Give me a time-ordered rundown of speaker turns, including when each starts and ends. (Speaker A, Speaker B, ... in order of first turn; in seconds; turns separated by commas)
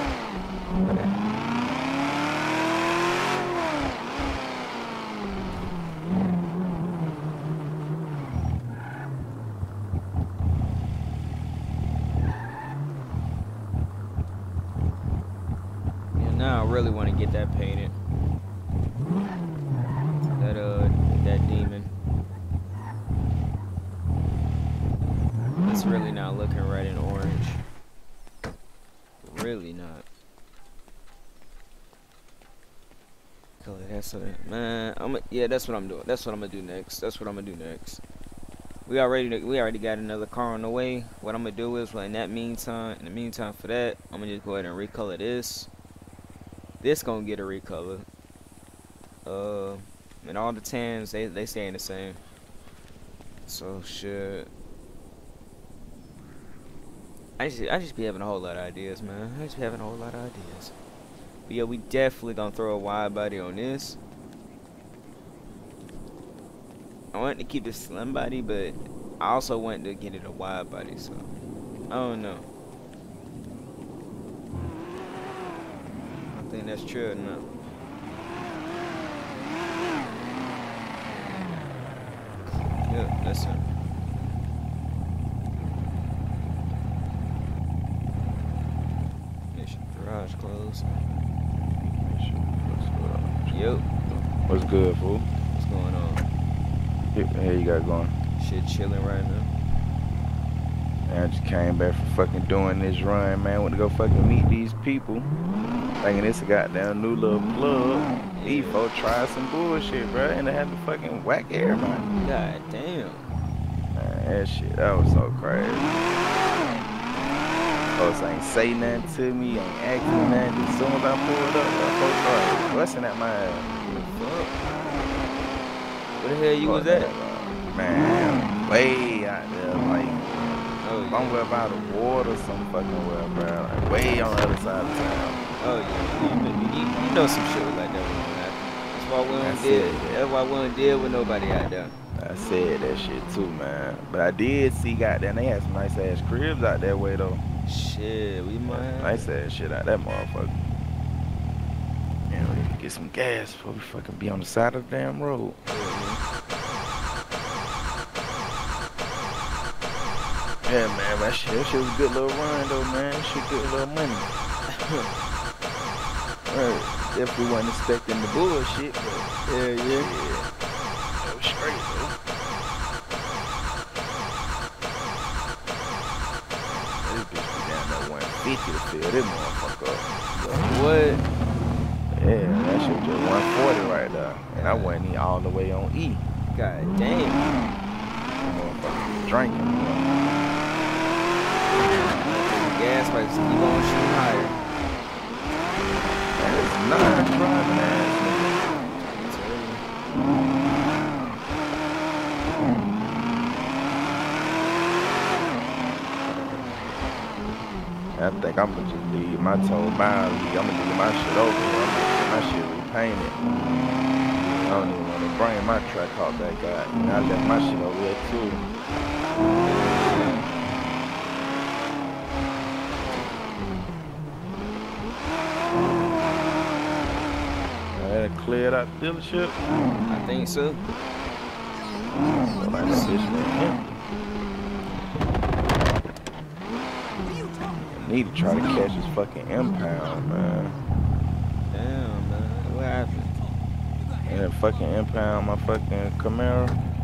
Speaker A: 16.2-18.0, Speaker A: 20.4-21.9, Speaker A: 25.6-27.6, Speaker A: 29.2-30.1, Speaker A: 33.6-38.0, Speaker A: 38.9-45.7, Speaker A: 46.8-48.1, Speaker A: 49.2-52.2, Speaker A: 53.5-54.5, Speaker A: 57.4-60.7, Speaker A: 61.5-64.0, Speaker A: 67.1-71.3, Speaker A: 71.9-72.5, Speaker A: 76.3-77.5, Speaker A: 82.9-83.7, Speaker A: 89.5-90.9, Speaker B: 92.1-93.4, Speaker A: 93.5-94.0, Speaker B: 94.5-95.3, Speaker A: 95.5-96.3, Speaker B: 97.1-98.2, Speaker A: 98.4-99.5, Speaker B: 101.1-105.3, Speaker B: 106.0-112.1, Speaker A: 108.4-108.8, Speaker A: 112.2-113.2, Speaker B: 113.9-116.0, Speaker B: 118.0-123.7, Speaker A: 123.8-124.6, Speaker A: 126.2-127.1, Speaker B: 126.6-130.2, Speaker A: 130.8-131.4, Speaker B: 131.1-135.4, Speaker A: 135.6-141.9, Speaker B: 139.4-140.2, Speaker B: 142.2-147.4, Speaker A: 147.7-149.3, Speaker B: 148.7-150.6, Speaker B: 152.3-155.6, Speaker A: 155.7-156.2, Speaker B: 160.7-164.3, Speaker A: 164.7-165.1, Speaker B: 166.5-170.5, Speaker A: 169.5-170.1, Speaker B: 171.2-172.2, Speaker B: 176.7-180.2, Speaker A: 180.3-181.2, Speaker B: 182.1-186.2, Speaker A: 184.6-185.0, Speaker A: 186.5-187.5, Speaker B: 188.4-190.2, Speaker A: 192.0-194.6, Speaker B: 196.4-198.6, Speaker A: 199.2-199.9, Speaker B: 208.2-213.4, Speaker A: 214.4-215.0, Speaker B: 214.7-218.7, Speaker A: 219.6-220.5, Speaker B: 227.9-229.6, Speaker A: 230.1-230.8, Speaker B: 232.4-233.8, Speaker B: 237.9-240.8, Speaker A: 241.7-243.3, Speaker B: 244.2-246.8